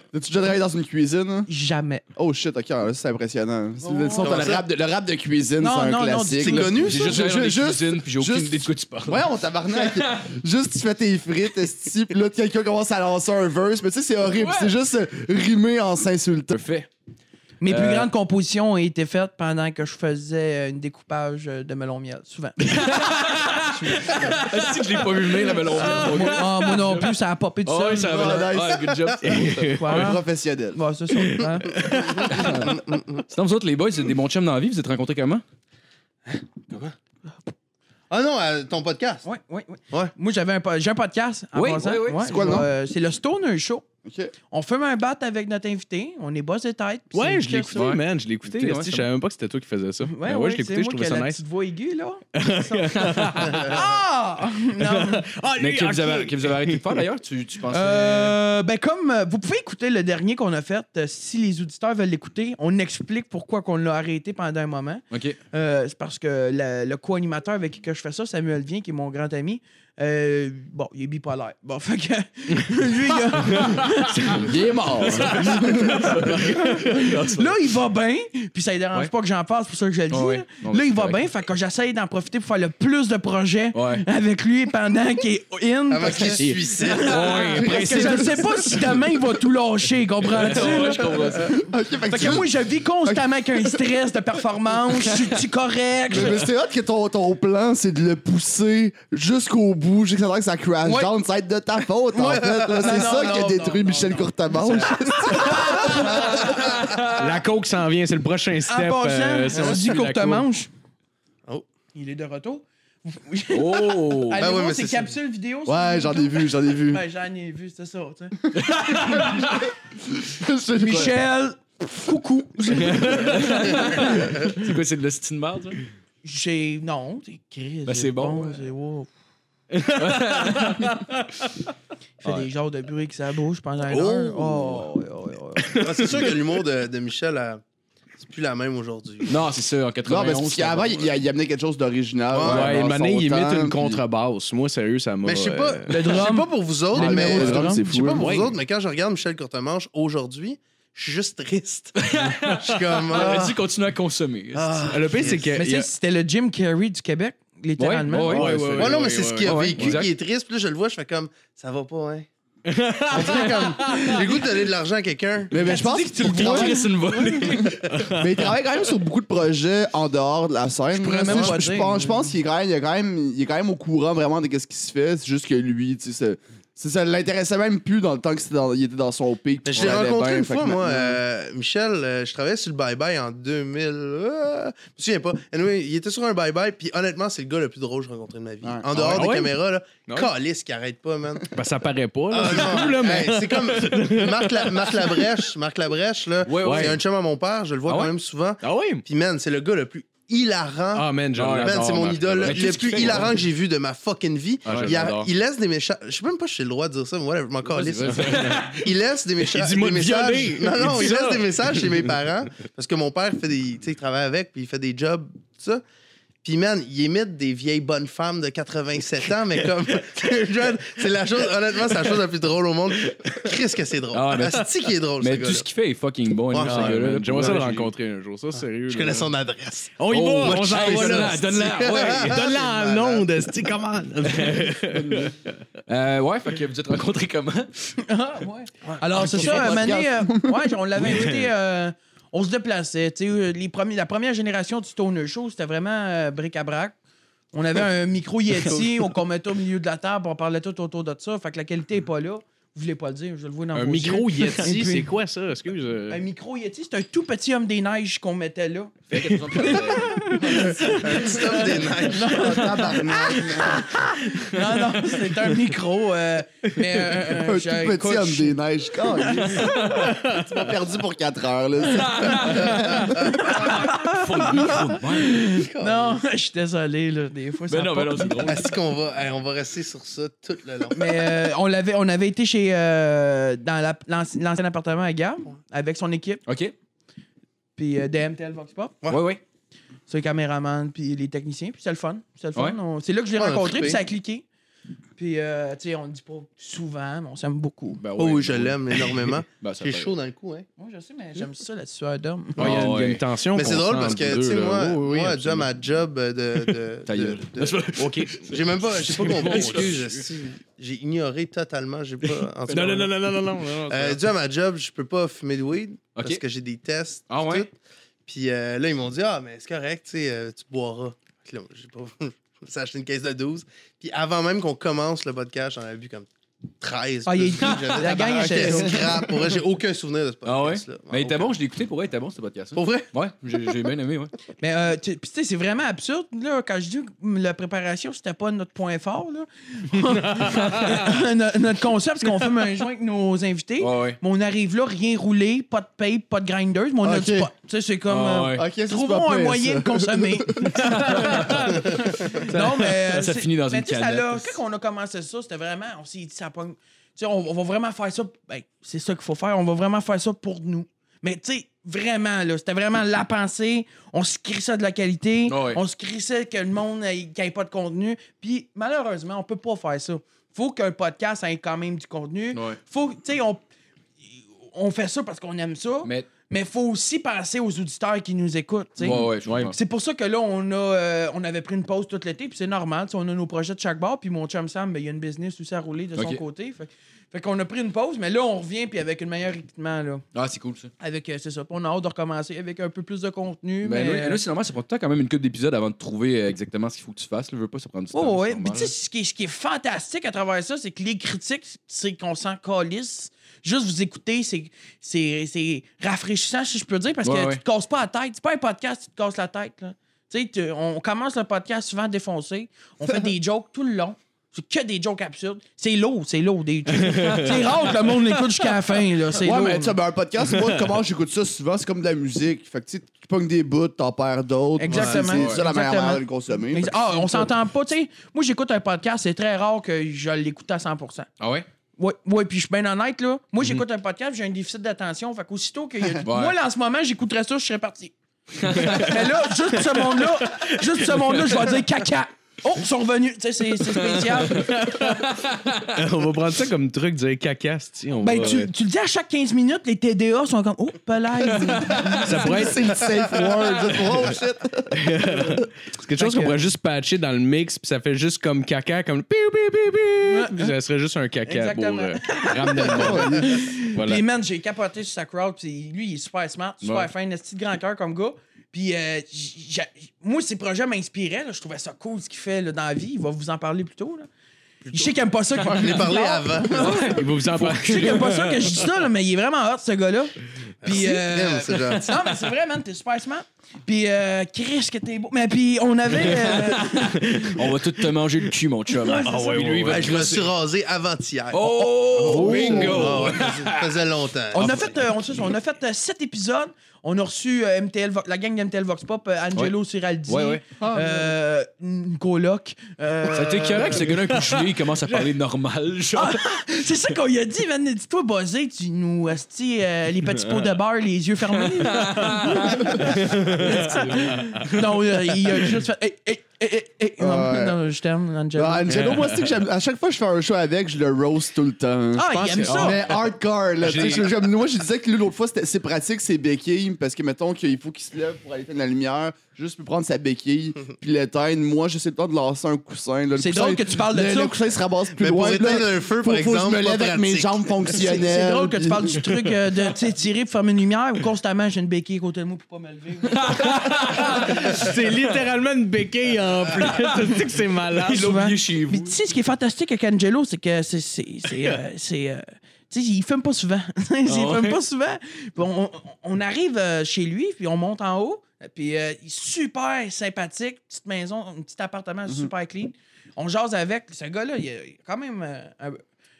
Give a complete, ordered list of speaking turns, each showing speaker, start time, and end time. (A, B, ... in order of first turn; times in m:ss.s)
0:00.1-0:01.5 A
0:01.5-0:02.0 B
0:02.1-0:16.6 A
0:03.8-0:04.2 B
0:04.2-0:04.6 C
0:05.6-0:06.8 B
0:06.4-0:07.2 C
0:06.8-0:10.2 D
0:14.3-0:14.7 D
0:16.5-0:16.9 D
0:17.6-0:23.0 B
0:17.6-0:18.1 D
0:22.7-0:27.1 D
0:23.9-0:24.2 B
0:25.8-0:28.4 B
0:26.0-0:26.3 E
0:27.6-0:30.1 D
0:28.0-0:28.9 A
0:29.2-0:30.1 E
0:29.6-0:30.2 B
0:29.9-0:30.8 A
0:30.7-0:31.8 B
0:31.1-0:32.2 E
0:32.0-0:33.2 C
0:32.3-0:32.7 D
0:33.3-0:35.4 D
0:36.3-0:36.9 C
0:38.1-0:39.2 C
0:39.2-0:43.8 B
0:41.5-0:42.6 D
0:42.2-0:42.7 A
0:44.0-0:44.3 A
0:44.5-0:47.8 B
0:47.1-0:51.4 E
0:47.7-0:49.1 D
0:50.0-0:56.4 B
0:52.3-0:53.8 E
0:54.8-0:55.2 E
0:55.6-0:58.4 D
0:57.7-1:31.1 B
1:05.1-1:05.4 D
1:13.3-1:14.5 E
1:14.2-1:17.6 D
1:15.2-1:16.6 E
1:20.1-1:21.2 D
1:23.8-1:24.0 D
1:25.9-1:27.7 C
1:26.4-1:28.8 E
1:30.2-1:31.6 D
1:31.5-1:33.8 A
1:32.1-1:36.5 B
1:36.1-1:46.5 A
1:40.8-1:41.1 B
1:42.2-1:43.0 C
1:42.7-1:46.4 B
1:45.9-1:46.2 E
1:46.3-1:47.0 C
1:47.1-1:50.5 E
1:48.6-1:50.7 B
1:51.9-1:59.5 B
1:53.5-1:54.5 D
1:54.4-1:55.1 C
1:55.6-1:57.0 A
1:58.7-1:59.4 D
2:00.2-2:01.1 A
2:00.8-2:04.2 B
2:02.8-2:05.8 D
2:06.2-2:09.1 B
2:07.8-2:08.6 D
2:09.8-2:11.4 E
2:09.9-2:10.9 D
2:12.2-2:15.8 B
2:13.9-2:14.8 D
2:15.8-2:17.6 C
2:18.2-2:19.4 C
2:19.2-2:21.1 D
2:20.0-2:24.0 A
2:22.3-2:22.8 C
2:22.4-2:26.3 E
2:25.2-2:33.6 C
2:25.9-2:26.5 B
2:26.9-2:28.0 A
2:26.9-2:28.5 E
2:27.0-2:27.8 B
2:32.0-2:35.4 D
2:34.5-2:35.5 C
2:34.9-2:35.9 E
2:35.5-2:38.5 B
2:37.8-2:40.1 D
2:38.1-2:40.0 E
2:38.8-2:42.3 C
2:42.7-2:44.2 E
2:43.1-2:45.6 C
2:45.5-2:46.9 A
2:45.6-2:47.3 B
2:46.2-2:48.0 D
2:47.4-2:48.3 E
2:48.2-3:01.2 A
2:50.9-2:52.3 B
2:59.6-3:11.5 C
3:08.6-3:09.1 A
3:08.9-3:09.5 E
3:11.5-3:15.3 E
3:12.3-3:21.1 C
3:16.4-3:17.0 D
3:16.6-3:17.0 E
3:18.6-3:19.0 E
3:20.9-3:23.3 E
3:21.4-3:23.4 D
3:21.6-3:35.8 C
3:24.6-3:25.3 E
3:24.7-3:25.0 D
3:27.8-3:28.9 E
3:27.8-3:28.7 D
3:29.4-3:32.1 E
3:36.4-3:45.7 C
3:44.1-3:44.7 D
3:45.2-3:47.9 D
3:46.5-3:47.7 C
3:46.6-3:49.3 E
3:48.6-3:53.3 C
3:50.0-3:51.5 E
3:50.1-3:52.5 D
3:52.0-3:55.5 E
3:54.5-3:55.3 D
3:55.9-3:58.0 D
3:58.0-4:07.0 B
3:58.9-3:59.7 C
3:59.2-4:00.7 A
4:07.5-4:15.1 B
4:13.7-4:16.2 E
4:16.1-4:19.8 B
4:19.1-4:20.4 D
4:19.6-4:20.8 E
4:20.5-4:21.5 B
4:20.8-4:23.7 C
4:22.0-4:28.6 B
4:22.1-4:23.9 A
4:27.3-4:33.1 A
4:29.2-4:30.0 B
4:31.9-4:32.9 D
4:33.1-4:33.8 C
4:33.4-4:38.5 B
4:33.6-4:35.5 D
4:35.5-4:36.2 C
4:37.7-4:38.7 D
4:38.4-4:41.2 C
4:40.9-4:46.4 B
4:46.5-4:46.7 D
4:47.8-4:49.0 B
4:49.1-4:49.4 D
4:50.1-4:54.4 B
4:53.4-4:54.0 C
4:55.2-4:58.0 B
4:58.0-5:00.1 D
4:58.2-5:00.6 C
5:00.8-5:02.7 B
5:02.6-5:03.2 D
5:02.6-5:05.6 E
5:03.5-5:07.8 C
5:07.0-5:10.2 D
5:08.0-5:08.5 E
5:08.4-5:13.1 C
5:09.2-5:10.0 E
5:12.7-5:13.9 D
5:12.7-5:14.2 E
5:13.9-5:17.7 C
5:16.2-5:16.4 D
5:17.3-5:17.7 D
5:18.2-5:26.3 C
5:26.8-5:31.6 C
5:27.2-5:29.0 B
5:27.6-5:28.4 D
5:29.0-5:29.3 A
5:30.4-5:34.3 D
5:32.8-5:33.1 C
5:34.6-6:13.6 B
5:43.8-5:44.2 D
5:47.0-5:47.5 A
5:48.1-5:48.6 D
5:48.5-5:50.8 A
5:50.9-5:51.8 D
5:52.4-5:54.6 D
6:05.5-6:05.8 D
6:12.5-6:12.8 D
6:14.7-6:30.2 B
6:19.0-6:19.8 D
6:19.1-6:19.7 E
6:26.2-6:26.4 D
6:30.3-6:30.9 D
6:31.0-6:34.4 B
6:33.8-6:38.9 D
6:38.1-7:00.0 B
6:47.2-6:47.6 D
6:57.0-6:57.7 E
6:59.4-7:07.5 A
7:04.8-7:11.3 B
7:05.3-7:05.6 D
7:11.4-7:11.7 D
7:12.0-7:24.7 B
7:16.2-7:16.6 D
7:18.6-7:19.1 D
7:18.8-7:19.1 E
7:19.9-7:20.7 E
7:24.4-7:28.7 E
7:25.5-7:25.8 D
7:28.2-7:32.6 B
7:31.8-7:35.6 A
7:32.2-7:33.0 E
7:34.9-7:44.2 E
7:36.2-7:36.6 B
7:40.2-7:40.7 B
7:41.5-7:54.3 B
7:43.0-7:43.5 A
7:46.8-7:47.1 D
7:54.9-8:07.5 B
7:55.6-7:57.2 C
7:56.8-7:58.7 E
8:00.8-8:02.1 C
8:06.3-8:10.5 D
8:09.0-8:10.0 B
8:09.2-8:10.4 E
8:09.9-8:14.9 C
8:11.5-8:13.9 D
8:12.2-8:13.3 E
8:12.2-8:13.0 B
8:12.4-8:13.0 A
8:14.5-8:24.2 B
8:14.6-8:14.9 D
8:20.3-8:20.6 D
8:20.8-8:21.3 A
8:23.3-8:26.5 D
8:26.1-8:39.0 B
8:31.9-8:34.8 D
8:33.2-8:34.0 E
8:37.2-8:37.8 A
8:38.6-8:59.2 A
8:38.9-8:39.4 E
8:42.1-8:43.0 B
8:42.6-8:43.2 D
8:43.8-8:44.3 D
8:53.4-8:54.6 B
8:55.2-8:57.6 C
8:57.9-9:04.6 B
9:03.4-9:04.8 D
9:03.8-9:08.3 E
9:06.8-9:07.1 D
9:07.9-9:09.2 D
9:08.0-9:26.0 B
9:14.3-9:14.8 D